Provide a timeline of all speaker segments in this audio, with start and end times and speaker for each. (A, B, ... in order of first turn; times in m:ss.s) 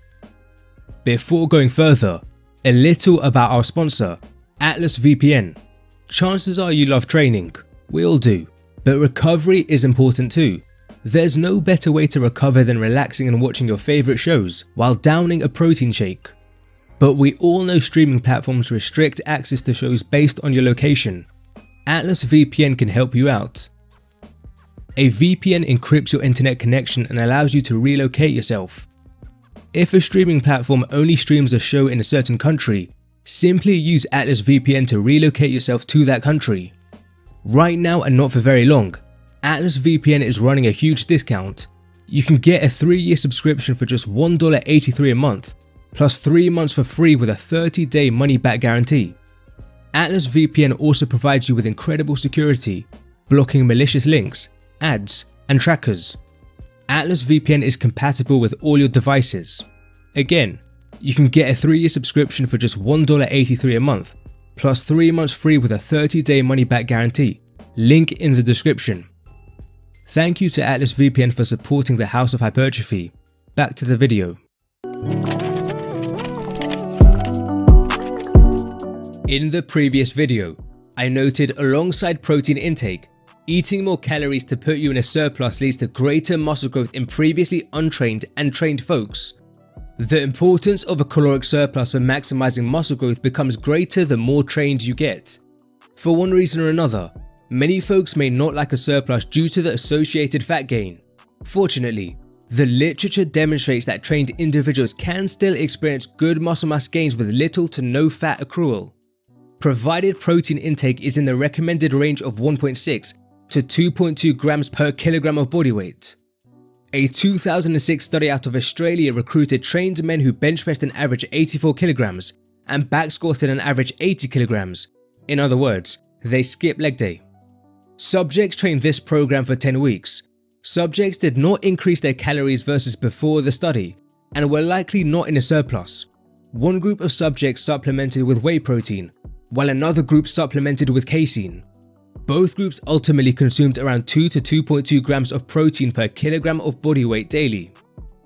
0:01.0-0:16.4 A
0:17.0-0:21.3 A
0:21.9-0:23.7 A
0:25.0-0:28.9 A
0:29.7-0:36.8 A
0:37.4-0:49.2 A
0:49.9-0:56.2 A
0:56.9-1:09.1 A
1:10.1-1:14.4 A
1:19.3-1:29.4 A
1:30.0-1:35.4 A
1:36.0-1:49.0 A
1:49.6-1:56.2 A
1:56.9-2:07.2 A
2:08.0-2:21.6 A
2:22.3-2:27.8 A